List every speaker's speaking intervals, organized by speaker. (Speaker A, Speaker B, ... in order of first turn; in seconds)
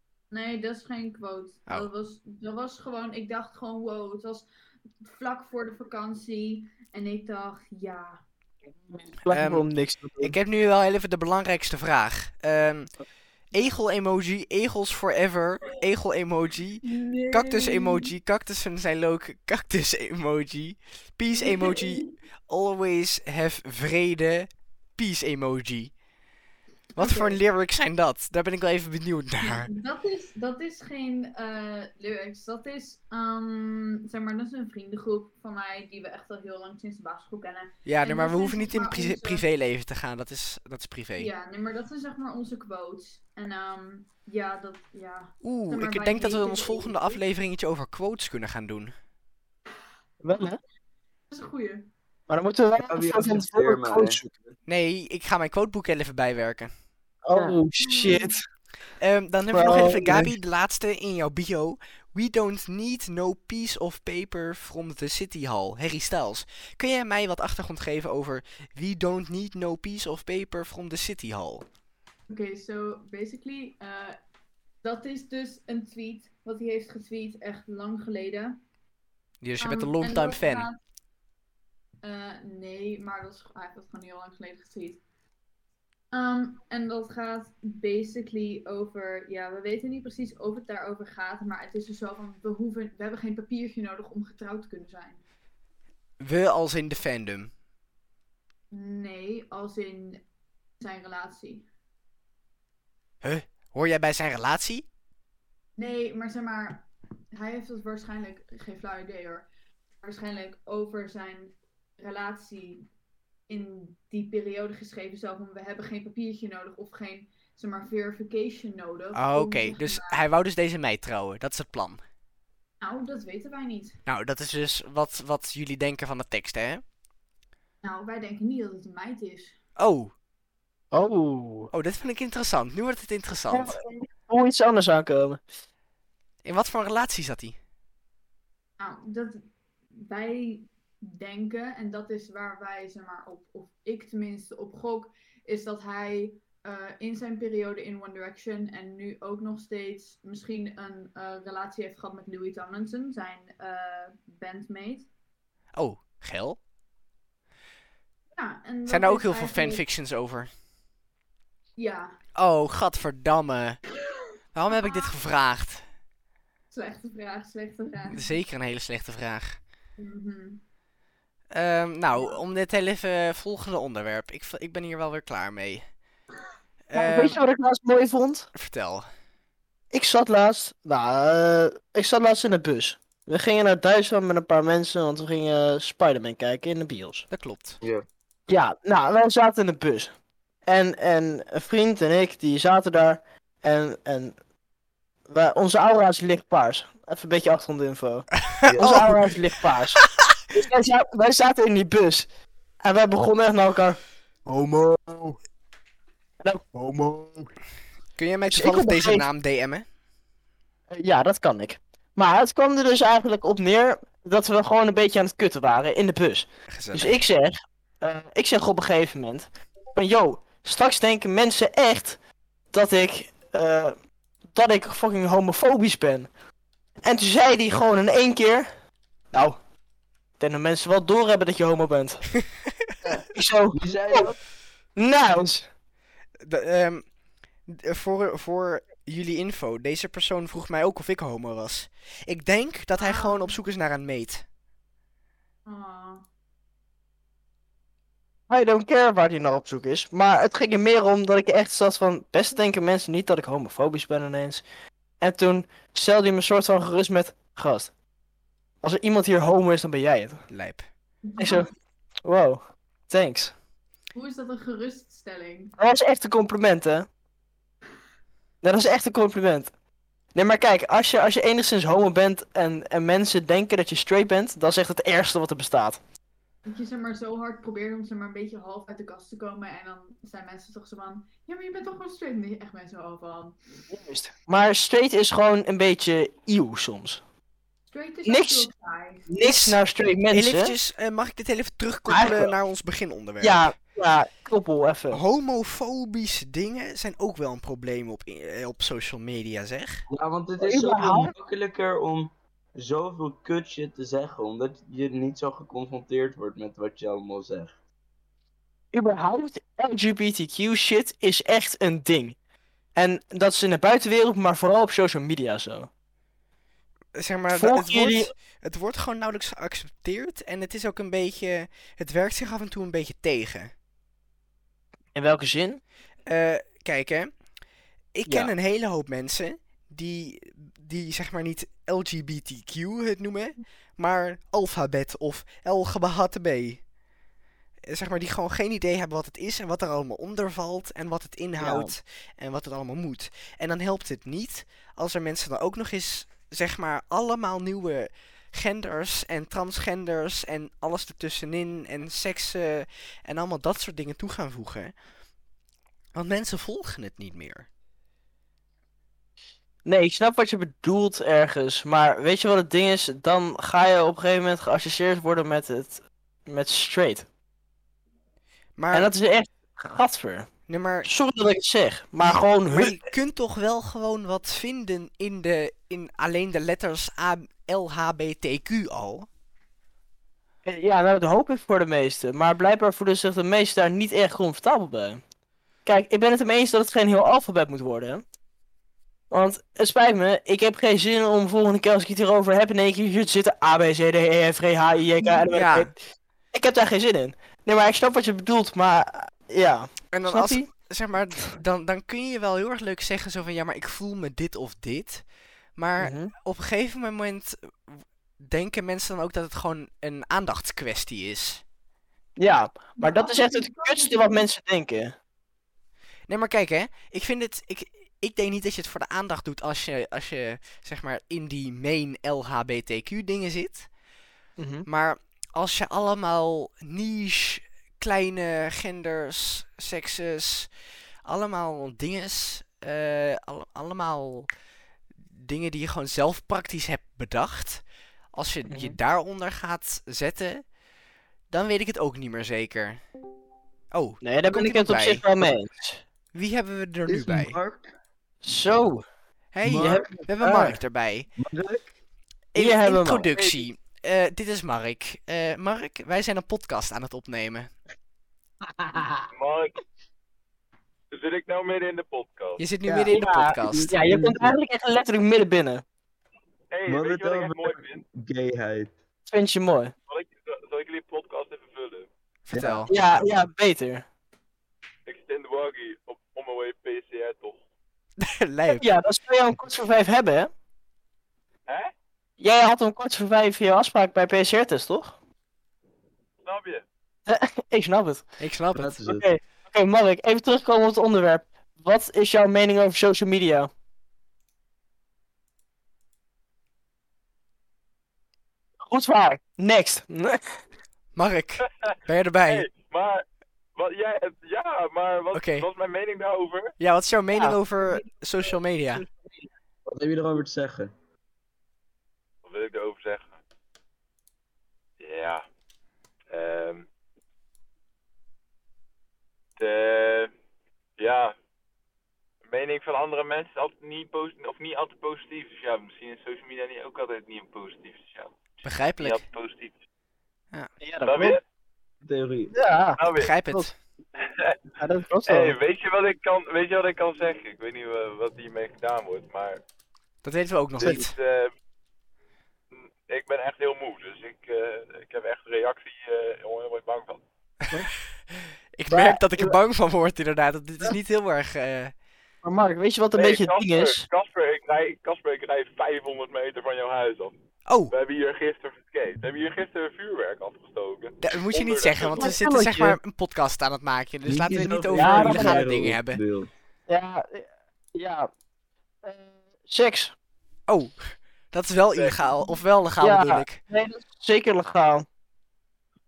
Speaker A: 0.3-4.5, 5.0-8.2, 16.8-18.1, 21.3-22.1, 26.9-27.4, 29.4-39.4, 41.2-47.2, 51.3-51.9, 57.8-58.3, 72.3-74.2, 74.8-78.6, 79.6-80.8, 82.0-85.0, 86.1-95.2, 98.7-100.2, 100.8-101.7, 105.8-109.5, 110.0-112.8, 113.5-120.2, 122.8-124.0, 127.8-129.6, 138.8-139.4, 139.9-155.1, 158.3-159.8, 161.8-162.1, 164.7-165.1, 166.7-168.3, 170.0-170.6, 172.1-172.4, 243.0-243.5, 245.7-246.2, 261.2-261.7, 264.1-265.7, 276.6-283.9, 287.9-289.3, 413.0-414.4
Speaker B: 8.9-10.3, 50.2-50.6, 52.3-54.3, 57.2-58.4, 59.5-60.3, 130.9-131.7, 133.5-135.4, 176.9-178.5, 179.9-187.2, 188.5-190.1, 190.7-194.3, 195.3-200.0, 200.5-202.2, 202.8-205.4, 206.4-207.5, 208.5-209.2, 210.9-222.2, 222.7-223.9, 224.5-226.3, 227.0-228.7, 229.3-229.6, 230.4-232.3, 233.0-234.3, 234.9-235.7, 248.5-254.6, 255.2-257.9, 258.8-260.4, 261.4-261.7, 262.2-263.5, 265.8-267.1, 268.6-269.7, 270.3-276.0, 283.9-287.2, 288.2-288.7, 289.3-290.7, 292.1-292.5, 293.4-295.2, 300.6-301.3, 308.9-312.4, 312.9-315.9, 317.5-318.3, 325.1-325.8, 341.6-341.9, 359.8-367.2, 368.9-370.5, 371.0-373.0, 380.6-385.2, 385.8-388.2, 389.3-395.9, 396.5-400.7, 406.0-406.3, 412.4-415.1, 424.6-424.9, 438.7-439.0, 444.2-446.0, 448.4-449.0, 449.7-450.8, 452.5-453.3, 463.1-465.8, 469.3-469.9, 472.6-474.0, 478.7-480.5, 482.4-485.1, 487.3-488.2, 488.8-493.7, 498.9-500.4, 530.8-531.4, 532.5-533.7, 534.8-535.5, 548.9-549.5, 552.4-554.0, 562.1-563.0, 564.9-565.6, 566.9-568.3, 569.0-570.1, 573.0-575.0
Speaker C: 9.2-9.6, 10.2-12.9, 13.5-25.9, 26.9-29.7, 37.9-41.3, 45.4-48.9, 54.7-56.7, 59.0-71.7, 79.4-80.7, 96.2-97.5, 103.2-104.8, 119.1-122.0, 124.1-126.8, 129.8-130.1, 131.7-133.8, 136.4-137.6, 155.8-156.6, 158.9-160.5, 162.3-163.8, 164.5-165.8, 168.1-169.6, 171.5-175.8, 176.9-177.4, 178.5-179.1, 187.3-187.8, 198.7-199.2, 208.2-209.8, 216.7-217.2, 236.4-237.1, 237.7-244.4, 260.5-260.9, 289.4-289.8, 290.3-293.7, 295.1-300.0, 317.1-323.7, 326.2-327.3, 328.1-336.8, 337.9-354.9, 356.1-357.7, 368.8-369.1, 370.7-371.1, 372.2-379.3, 395.5-395.9, 400.1-405.2, 405.8-411.6, 416.3-423.9, 424.9-430.7, 431.2-434.5, 435.3-440.6, 441.5-443.0, 443.9-445.2, 446.3-447.6, 449.5-451.3, 452.5-457.7, 462.6-463.9, 472.5-472.9, 478.2-478.8, 488.4-488.9, 501.1-502.7, 505.3-505.7, 506.8-509.0, 528.6-529.2, 533.1-533.7, 540.2-541.1, 548.4-551.9, 557.6-557.9, 561.2-566.2, 570.7-573.6
Speaker D: 52.8-54.2, 187.8-188.1, 198.7-199.2, 233.7-234.4, 300.1-307.7, 447.1-447.9, 449.6-450.2, 451.4-451.9, 462.9-464.6, 466.9-468.9, 472.5-472.9, 488.8-489.2, 509.9-510.9, 532.0-532.5, 564.3-566.5
Speaker E: 459.3-459.7, 461.1-462.6, 466.7-468.0, 470.1-472.1, 475.1-477.6, 486.4-486.8, 501.6-503.2, 503.8-506.7, 512.4-513.4, 515.0-515.4, 516.3-516.9, 519.6-520.3, 521.0-521.3, 522.5-528.4, 529.0-529.8, 531.0-531.4, 533.0-533.3, 534.2-534.6, 535.2-539.6, 540.8-541.5, 542.7-547.2, 553.1-557.3, 557.9-562.4, 571.9-572.4